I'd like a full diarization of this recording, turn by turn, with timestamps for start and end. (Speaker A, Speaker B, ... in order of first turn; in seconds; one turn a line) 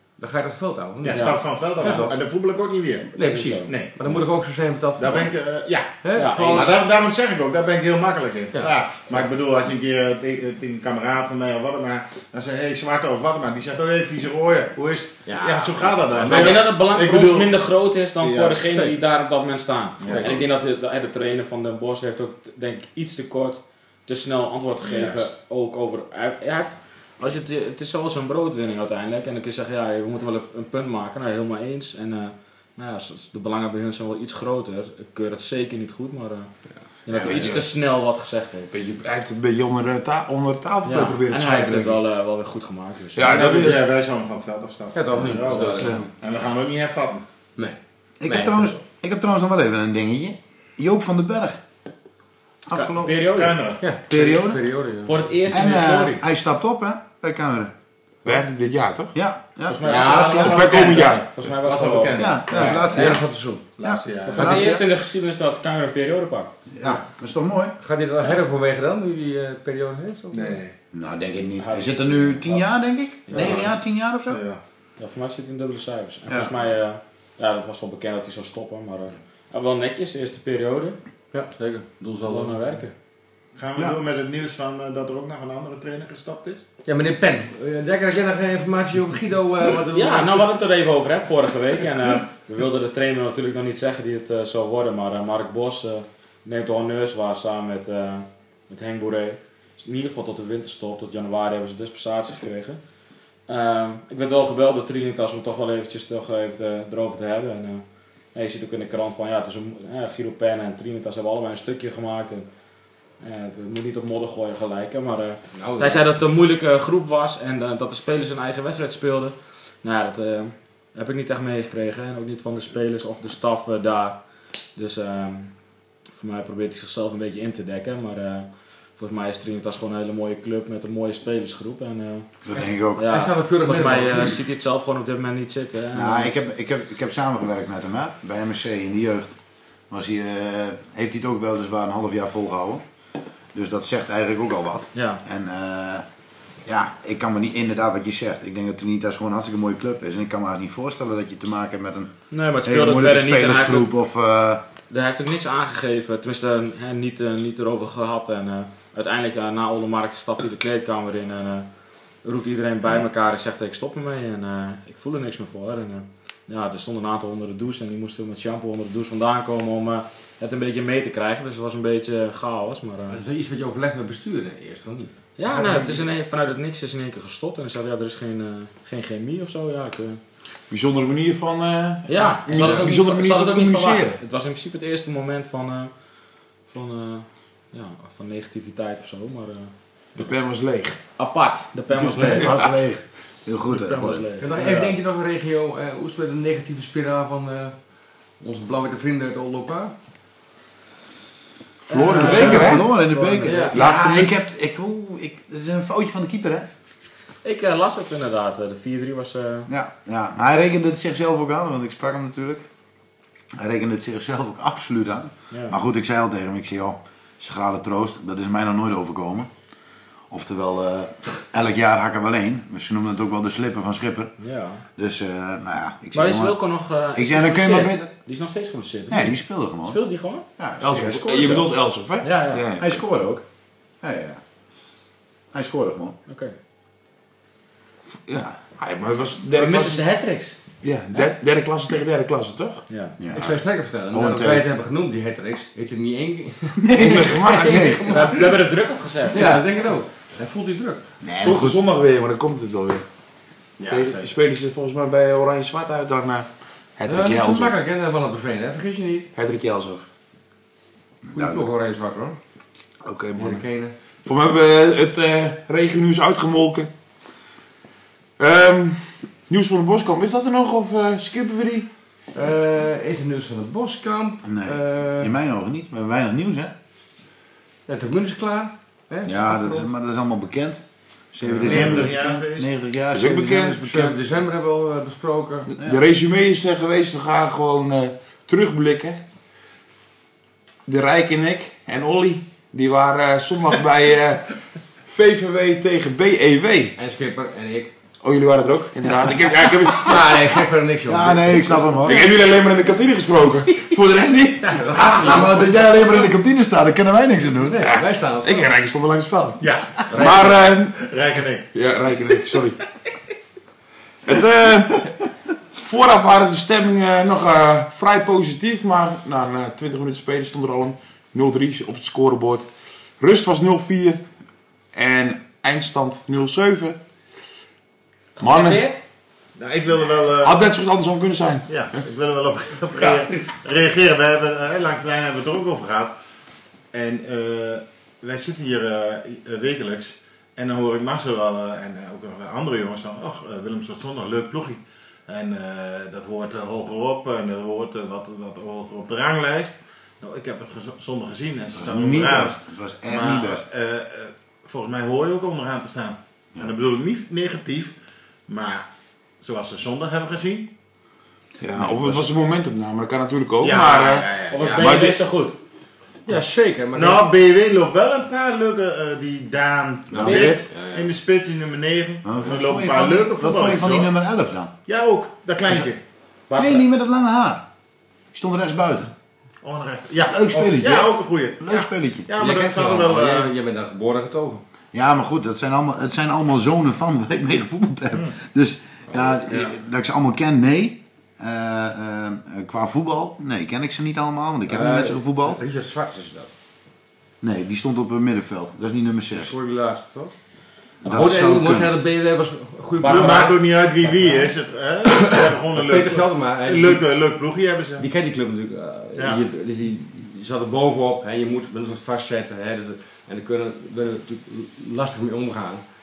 Speaker A: 0.2-2.1
Speaker B: 1.0-3.1
Speaker C: 1.1-2.1
Speaker A: 3.1-5.3
Speaker C: 3.2-4.2
Speaker B: 3.6-3.9
Speaker B: 5.0-6.0
Speaker A: 6.0-6.8
Speaker C: 6.2-6.7
Speaker B: 6.5-17.5
Speaker A: 15.2-16.6
Speaker C: 16.2-36.5
Speaker B: 18.2-18.6
Speaker A: 18.7-18.9
Speaker B: 20.0-20.4
Speaker A: 20.1-20.4
Speaker B: 24.8-25.2
Speaker A: 36.7-37.6
Speaker C: 37.0-38.7
Speaker D: 37.2-37.6
Speaker D: 38.7-42.0
Speaker C: 40.8-43.4
Speaker D: 43.1-43.9
Speaker B: 43.2-47.2
Speaker A: 44.9-46.0
Speaker A: 47.5-48.8
Speaker E: 48.2-51.6
Speaker E: 52.7-53.1
Speaker B: 52.8-53.8
Speaker C: 52.9-53.6
Speaker A: 53.8-55.2
Speaker E: 54.1-54.6
Speaker C: 55.0-56.2
Speaker E: 55.5-57.7
Speaker D: 58.2-59.1
Speaker E: 59.1-60.6
Speaker C: 59.7-62.3
Speaker B: 59.8-63.2
Speaker D: 60.3-61.3
Speaker E: 62.1-63.2
Speaker A: 62.5-63.7
Speaker B: 63.8-64.7
Speaker E: 63.8-64.8
Speaker C: 64.2-66.5
Speaker E: 66.7-67.7
Speaker A: 67.8-70.6
Speaker B: 70.3-70.7
Speaker E: 70.9-74.4
Speaker C: 71.6-72.7
Speaker C: 73.3-73.7
Speaker B: 73.3-73.7
Speaker B: 74.3-74.6
Speaker C: 75.0-81.0
Speaker A: 81.3-82.6
Speaker C: 82.2-82.9
Speaker B: 83.5-86.6
Speaker A: 86.8-90.4
Speaker C: 89.9-102.8
Speaker C: 103.5-107.8
Speaker C: 108.3-112.5
Speaker C: 113.2-124.2
Speaker A: 115.5-116.1
Speaker C: 124.7-125.5
Speaker C: 126.1-132.3
Speaker E: 132.4-133.1
Speaker C: 132.9-136.3
Speaker A: 133.0-134.4
Speaker E: 135.9-139.4
Speaker E: 139.9-142.8
Speaker E: 143.5-146.0
Speaker C: 144.9-145.2
Speaker E: 146.7-154.6
Speaker C: 152.3-153.9
Speaker C: 154.9-161.7
Speaker C: 162.2-173.2
Speaker A: 173.1-176.0
Speaker C: 175.4-180.2
Speaker D: 180.7-184.2
Speaker C: 182.1-185.9
Speaker A: 182.5-182.8
Speaker C: 186.7-190.3
Speaker D: 190.2-191.0
Speaker C: 191.1-192.6
Speaker E: 191.9-194.3
Speaker C: 193.7-194.9
Speaker A: 194.4-197.8
Speaker A: 198.4-199.9
Speaker D: 201.8-202.9
Speaker C: 201.9-203.7
Speaker E: 202.1-206.7
Speaker A: 202.3-202.6
Speaker A: 203.4-203.8
Speaker D: 203.7-204.3
Speaker C: 207.4-209.7
Speaker E: 209.7-212.6
Speaker E: 213.6-219.5
Speaker E: 220.3-224.3
Speaker C: 224.4-224.8
Speaker E: 225.0-226.6
Speaker C: 226.1-230.4
Speaker E: 227.1-228.1
Speaker E: 229.1-230.0
Speaker E: 230.6-231.6
Speaker D: 230.8-233.0
Speaker C: 231.2-231.7
Speaker C: 232.2-232.7
Speaker E: 232.8-233.4
Speaker E: 234.0-234.4
Speaker E: 235.5-236.2
Speaker C: 236.3-236.5
Speaker D: 238.1-240.0
Speaker C: 239.5-240.6
Speaker D: 240.8-242.8
Speaker C: 242.9-243.2
Speaker E: 243.2-244.7
Speaker A: 243.3-248.6
Speaker E: 246.8-248.2
Speaker D: 246.9-248.0
Speaker C: 248.1-249.6
Speaker A: 249.3-251.0
Speaker E: 249.4-249.6
Speaker E: 251.2-251.8
Speaker D: 251.4-253.0
Speaker A: 253.8-254.3
Speaker D: 253.8-257.7
Speaker A: 257.1-259.3
Speaker D: 259.4-260.0
Speaker E: 261.3-261.6
Speaker A: 261.3-262.4
Speaker D: 263.0-263.6
Speaker A: 263.4-263.9
Speaker D: 264.2-266.9
Speaker D: 268.4-271.9
Speaker A: 272.3-275.3
Speaker E: 274.4-276.7
Speaker A: 277.9-279.9
Speaker E: 279.2-280.8
Speaker E: 281.3-284.2
Speaker D: 281.6-281.9
Speaker B: 281.6-282.7
Speaker A: 281.6-282.0
Speaker D: 283.1-283.8
Speaker A: 283.8-285.7
Speaker D: 285.7-289.2
Speaker D: 290.9-294.5
Speaker D: 295.1-296.9
Speaker A: 297.0-297.9
Speaker D: 298.2-300.2
Speaker E: 299.8-300.1
Speaker A: 299.9-302.1
Speaker E: 301.1-302.2
Speaker D: 302.0-305.3
Speaker A: 304.6-306.1
Speaker E: 305.1-307.9
Speaker A: 307.6-308.7
Speaker D: 307.8-310.9
Speaker B: 309.6-311.7
Speaker A: 310.1-310.5
Speaker D: 311.7-312.8
Speaker D: 314.3-315.1
Speaker D: 315.8-322.7
Speaker D: 323.2-324.2
Speaker D: 324.9-327.0
Speaker C: 328.4-329.0
Speaker D: 328.4-328.9
Speaker B: 329.6-330.6
Speaker D: 330.4-331.7
Speaker B: 331.7-336.1
Speaker B: 336.9-357.9
Speaker E: 351.7-353.6
Speaker B: 358.5-358.8
Speaker B: 359.4-360.7
Speaker D: 361.6-365.2
Speaker E: 361.7-362.3
Speaker B: 363.6-364.3
Speaker A: 363.9-364.8
Speaker C: 364.5-365.6
Speaker A: 366.2-367.3
Speaker B: 366.9-374.1
Speaker A: 370.1-371.1
Speaker E: 370.1-370.6
Speaker C: 370.2-370.5
Speaker E: 372.2-374.7
Speaker B: 374.9-376.0
Speaker C: 376.5-376.9
Speaker E: 376.6-377.6
Speaker E: 378.3-379.1
Speaker B: 379.6-383.5
Speaker E: 380.2-382.3
Speaker A: 382.3-384.6
Speaker E: 384.9-395.6
Speaker B: 389.5-389.7
Speaker A: 394.7-396.5
Speaker E: 397.4-399.5
Speaker A: 399.3-400.3
Speaker A: 401.0-404.5
Speaker E: 401.0-401.9
Speaker C: 403.0-403.6
Speaker B: 403.1-408.1
Speaker A: 405.1-407.0
Speaker A: 408.0-415.8